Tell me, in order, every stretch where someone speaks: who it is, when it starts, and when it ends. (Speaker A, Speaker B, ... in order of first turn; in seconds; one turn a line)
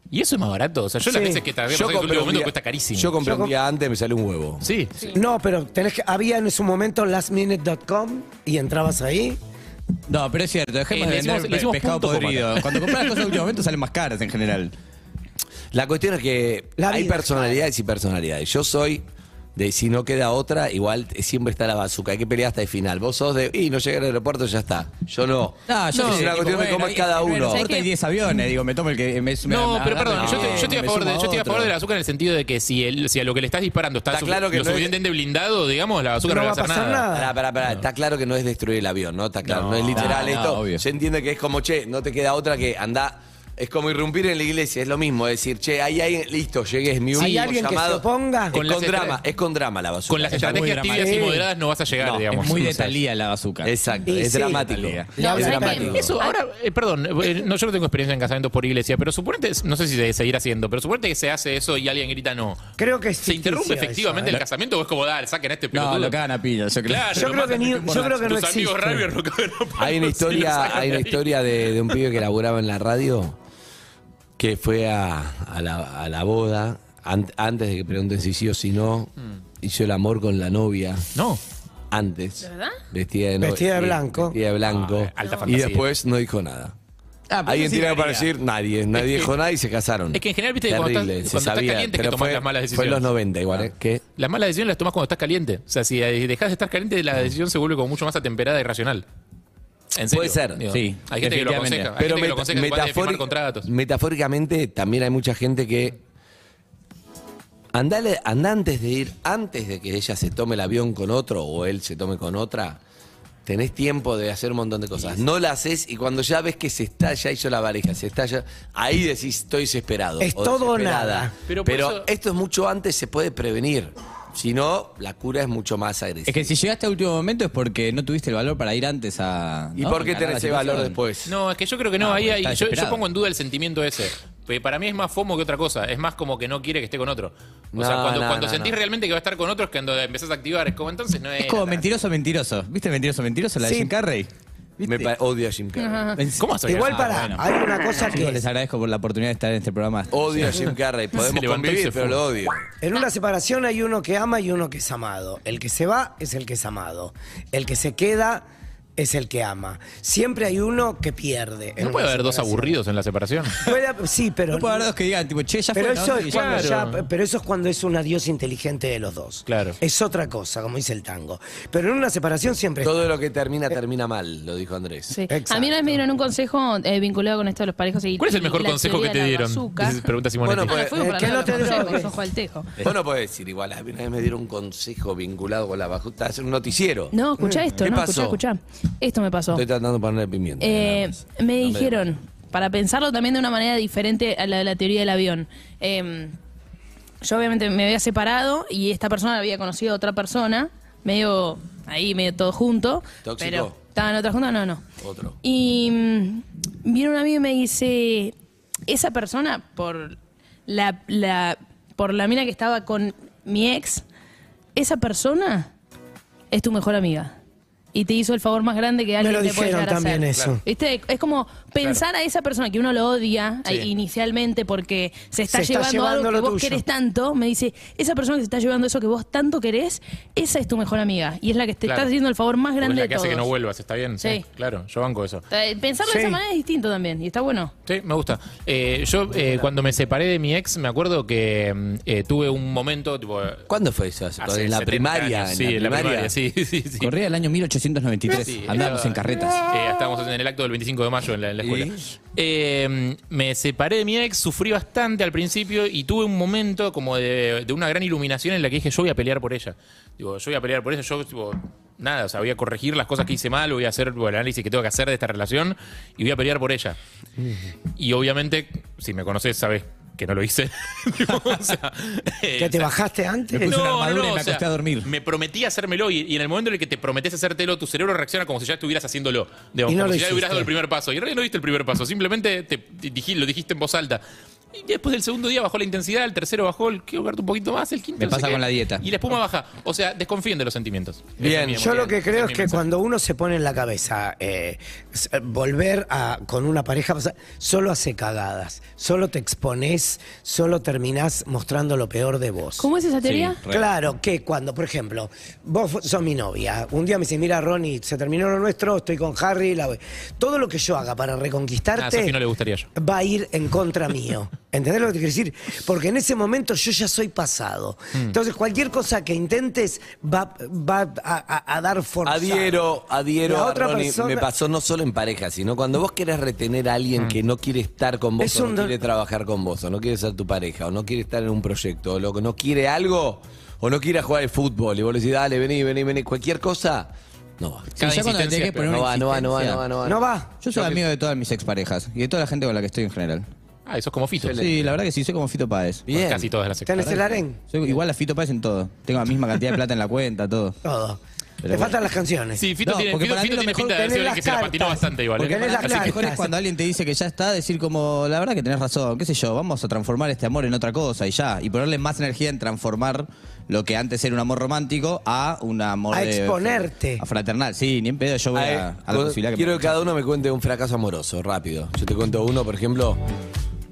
Speaker A: 0.1-3.2
Speaker B: 1.1-1.4
Speaker C: 1.7-5.1
Speaker B: 3.2-3.5
Speaker A: 4.6-4.9
Speaker B: 5.1-9.4
Speaker D: 10.1-14.7
Speaker A: 10.9-13.3
Speaker C: 15.7-19.0
Speaker B: 16.8-17.7
Speaker C: 19.6-27.7
Speaker D: 25.7-31.7
Speaker A: 25.9-26.5
Speaker E: 27.5-27.9
Speaker A: 29.4-37.1
Speaker C: 30.1-30.8
Speaker C: 34.1-34.9
Speaker B: 36.2-37.3
Speaker C: 37.1-51.1
Speaker A: 39.4-40.3
Speaker D: 39.9-40.8
Speaker B: 47.1-48.6
Speaker A: 47.2-47.5
Speaker A: 48.5-49.2
Speaker A: 50.1-52.9
Speaker D: 50.3-51.4
Speaker B: 51.0-51.4
Speaker D: 52.0-53.7
Speaker C: 53.6-56.1
Speaker B: 54.0-56.0
Speaker D: 54.7-55.2
Speaker E: 55.2-56.3
Speaker A: 55.7-62.6
Speaker B: 62.8-64.4
Speaker A: 63.2-66.2
Speaker D: 65.7-68.2
Speaker A: 66.8-72.0
Speaker B: 67.1-69.1
Speaker C: 69.8-73.4
Speaker C: 74.4-81.0
Speaker A: 81.1-81.4
Speaker C: 81.9-86.8
Speaker E: 82.4-82.8
Speaker B: 83.4-84.4
Speaker A: 84.6-85.9
Speaker D: 87.3-88.3
Speaker C: 87.4-94.0
Speaker A: 88.9-89.3
Speaker A: 90.1-99.0
Speaker A: 99.9-103.7
Speaker C: 100.1-100.6
Speaker D: 100.7-101.9
Speaker C: 102.0-106.0
Speaker C: 107.7-112.8
Speaker C: 113.4-126.5
Speaker B: 120.2-121.3
Speaker A: 121.5-122.1
Speaker D: 126.3-131.0
Speaker C: 129.8-131.3
Speaker A: 131.2-141.9
Speaker D: 132.0-133.0
Speaker C: 137.7-138.8
Speaker D: 141.4-145.1
Speaker B: 143.6-143.9
Speaker C: 144.8-146.2
Speaker E: 145.8-146.2
Speaker D: 146.2-147.4
Speaker A: 146.4-147.3
Speaker B: 146.7-148.4
Speaker D: 148.1-150.5
Speaker C: 150.1-152.6
Speaker A: 151.1-152.2
Speaker B: 152.8-162.8
Speaker A: 161.8-163.6
Speaker B: 163.6-164.9
Speaker D: 164.5-166.8
Speaker B: 165.8-173.1
Speaker A: 166.3-167.0
Speaker A: 169.5-169.8
Speaker C: 172.8-175.2
Speaker E: 175.1-180.1
Speaker B: 175.3-175.8
Speaker A: 178.2-180.8
Speaker C: 180.4-181.9
Speaker E: 180.7-182.7
Speaker B: 180.9-182.1
Speaker C: 182.8-187.1
Speaker E: 187.1-189.6
Speaker B: 187.4-187.7
Speaker C: 187.7-188.4
Speaker C: 189.5-192.1
Speaker E: 190.6-196.3
Speaker E: 197.2-204.8
Speaker C: 203.2-203.8
Speaker C: 205.0-205.4
Speaker E: 205.4-208.3
Speaker E: 208.9-210.2
Speaker E: 210.7-214.0
Speaker E: 214.8-215.7
Speaker E: 216.5-217.3
Speaker E: 217.9-233.5
Speaker B: 219.2-220.6
Speaker B: 225.5-226.8
Speaker A: 232.8-235.4
Speaker E: 235.5-237.7
Speaker B: 236.0-236.4
Speaker A: 237.8-243.6
Speaker C: 243.7-246.3
Speaker A: 244.4-247.1
Speaker D: 247.0-249.6
Speaker A: 248.3-267.0
Speaker C: 251.6-252.0
Speaker A: 268.0-272.9
Speaker B: 272.6-273.7
Speaker D: 273.5-275.1
Speaker A: 273.6-284.2
Speaker B: 279.9-280.7
Speaker A: 284.7-292.8
Speaker D: 288.2-289.0
Speaker C: 291.4-291.9
Speaker B: 291.8-302.9
Speaker E: 302.8-303.6
Speaker D: 303.2-303.9
Speaker B: 303.7-312.4
Speaker A: 312.0-312.9
Speaker B: 312.9-322.9
Speaker C: 322.2-338.0
Speaker B: 323.4-324.5
Speaker B: 328.4-329.0
Speaker D: 338.0-339.8
Speaker A: 338.0-338.9
Speaker C: 338.9-341.0
Speaker B: 340.0-340.5
Speaker D: 340.6-343.4
Speaker A: 343.9-344.6
Speaker C: 344.4-344.9
Speaker D: 344.5-346.0
Speaker C: 346.1-346.5
Speaker A: 346.1-347.4
Speaker B: 346.9-347.6
Speaker D: 347.7-350.8
Speaker B: 350.8-352.6
Speaker D: 351.6-352.0
Speaker A: 352.6-356.2
Speaker D: 352.8-353.9
Speaker B: 353.9-356.5
Speaker D: 355.4-369.9
Speaker B: 366.1-367.2
Speaker C: 368.5-373.2